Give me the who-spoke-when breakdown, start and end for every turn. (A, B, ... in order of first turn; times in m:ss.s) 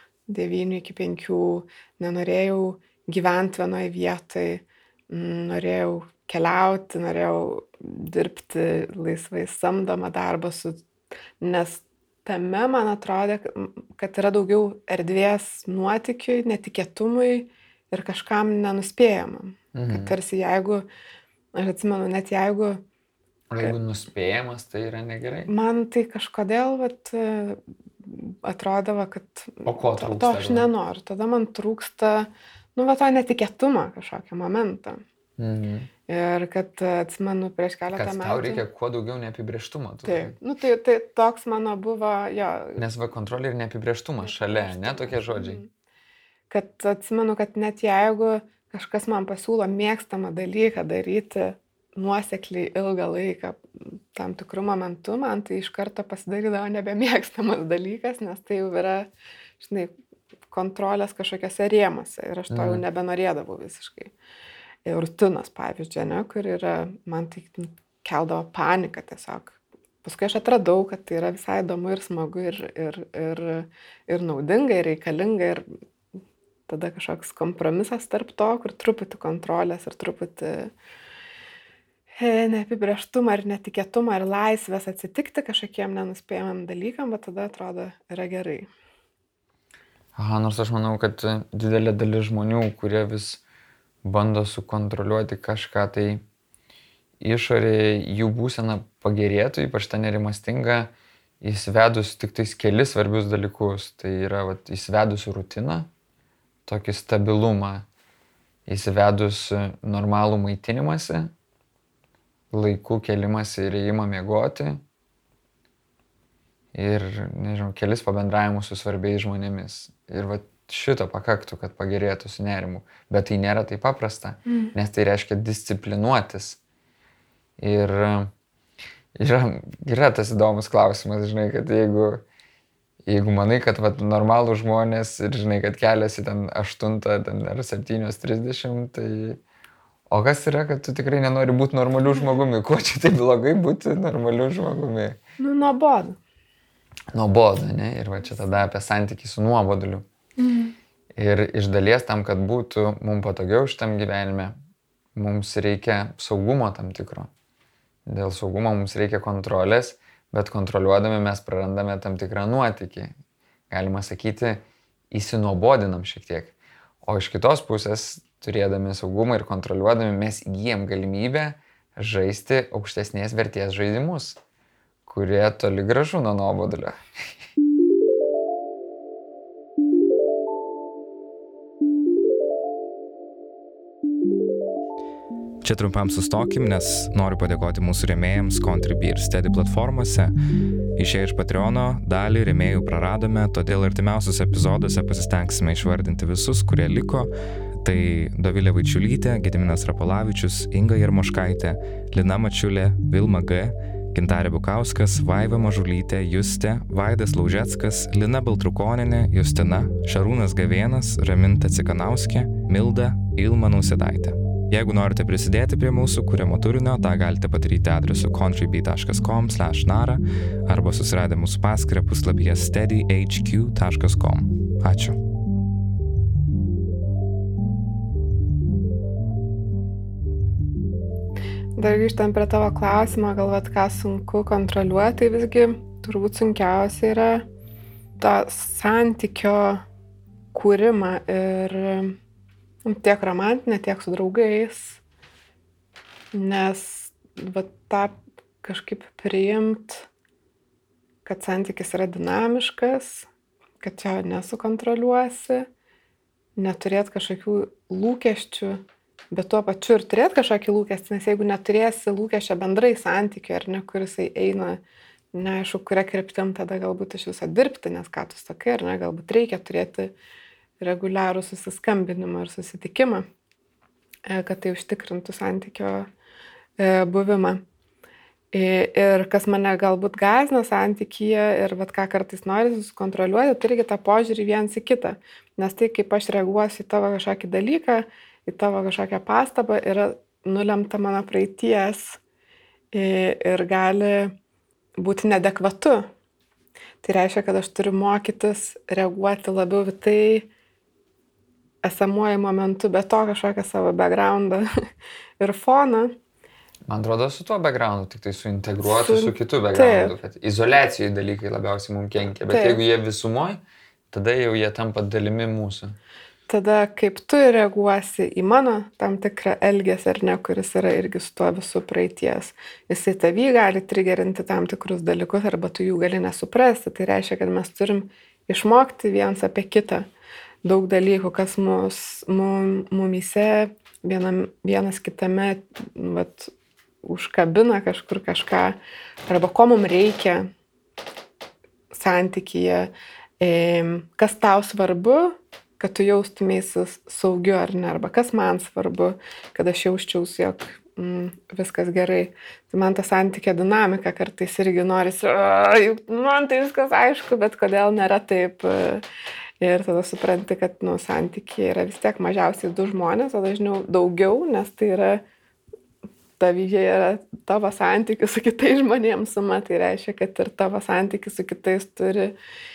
0:00.3-0:10.8 A
0:11.4-0:20.9 A
0:19.7-0:20.2 B
0:21.5-0:22.8 A
0:23.5-0:25.5 B
0:25.5-0:35.0 A
0:29.6-0:30.7 B
0:35.4-0:35.9 B
0:36.1-0:38.6 A
0:37.9-0:40.4 B
0:40.0-0:42.8 A
0:42.8-0:45.6 B
0:44.3-0:45.7 A
0:46.5-0:59.9 A
1:00.5-1:04.1 A
1:02.5-1:02.8 B
1:04.8-1:15.6 A
1:16.7-1:20.7 A
1:22.2-1:28.7 A
1:30.2-1:33.4 B
1:34.0-1:36.2 B
1:37.2-1:45.9 B
1:46.7-1:47.9 B
1:48.7-1:51.3 B
1:52.5-1:54.8 B
1:56.7-2:06.6 B
2:04.5-2:04.7 A
2:07.6-2:08.3 B
2:09.2-2:12.2 B
2:13.1-2:19.4 B
2:20.1-2:25.2 B
2:25.4-2:26.2 A
2:27.1-2:30.0 B
2:30.4-2:30.8 A
2:31.2-2:34.6 B
2:35.2-2:37.3 B
2:38.1-2:43.1 B
2:43.7-2:54.4 B
2:55.1-2:57.0 B
3:05.6-3:10.3 C
3:11.0-3:45.2 C
3:51.8-3:57.5 A
3:58.2-3:59.8 A
4:00.5-4:02.2 A
4:02.8-4:05.0 A
4:06.3-4:10.1 A
4:11.2-4:13.3 A
4:13.8-4:15.7 A
4:16.6-4:24.8 A
4:25.3-4:30.1 A
4:30.8-4:33.3 A
4:34.3-4:36.1 A
4:36.8-4:37.6 A
4:38.5-4:52.2 A
4:52.9-4:54.4 A
4:55.0-4:56.1 A
4:57.0-5:00.5 A
5:01.8-5:04.7 A
5:05.4-5:06.2 A
5:06.9-5:13.6 B
5:08.8-5:10.2 A
5:12.5-5:12.8 A
5:14.1-5:16.0 B
5:16.5-5:30.1 A
5:30.6-5:36.5 A
5:37.0-5:40.5 A
5:41.9-5:59.0 A
5:59.6-6:05.2 A
6:06.4-6:12.3 A